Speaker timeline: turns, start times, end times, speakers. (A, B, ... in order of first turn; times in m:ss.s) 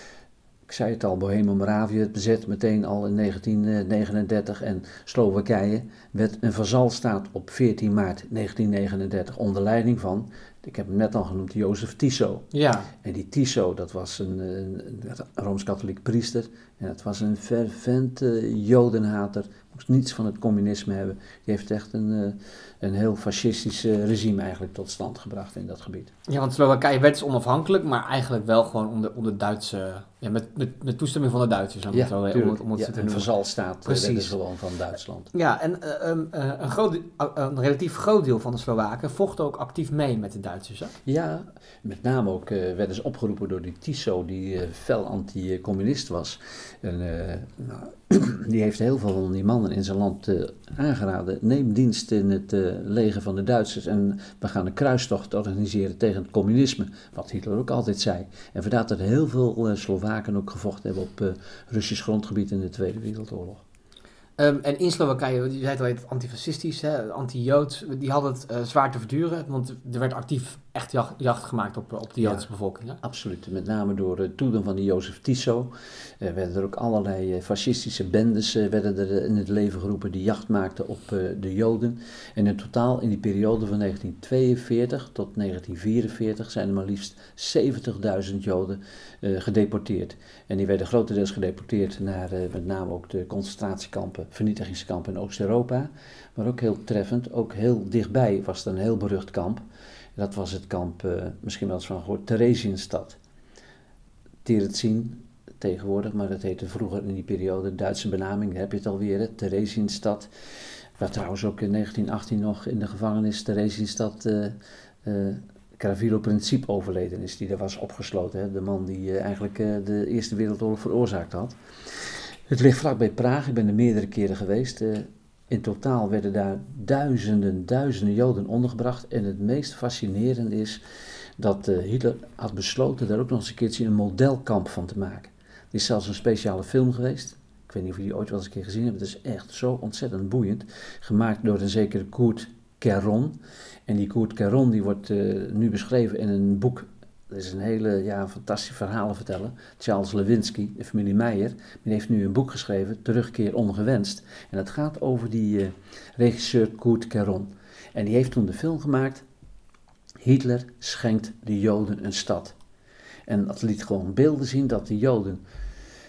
0:00.7-0:12.5 A
0:12.5-0:12.9 B
0:13.0-0:26.1 A
0:26.3-0:33.3 B
0:31.9-0:35.3 A
0:33.8-0:34.4 B
0:35.3-0:40.9 B
0:41.1-1:03.6 A
1:04.4-1:13.0 B
1:13.0-1:39.6 A
1:40.2-1:43.2 A
1:44.4-1:50.3 A
1:51.0-2:10.8 A
2:11.4-2:39.2 A
2:40.2-2:42.6 A
2:43.3-2:45.4 A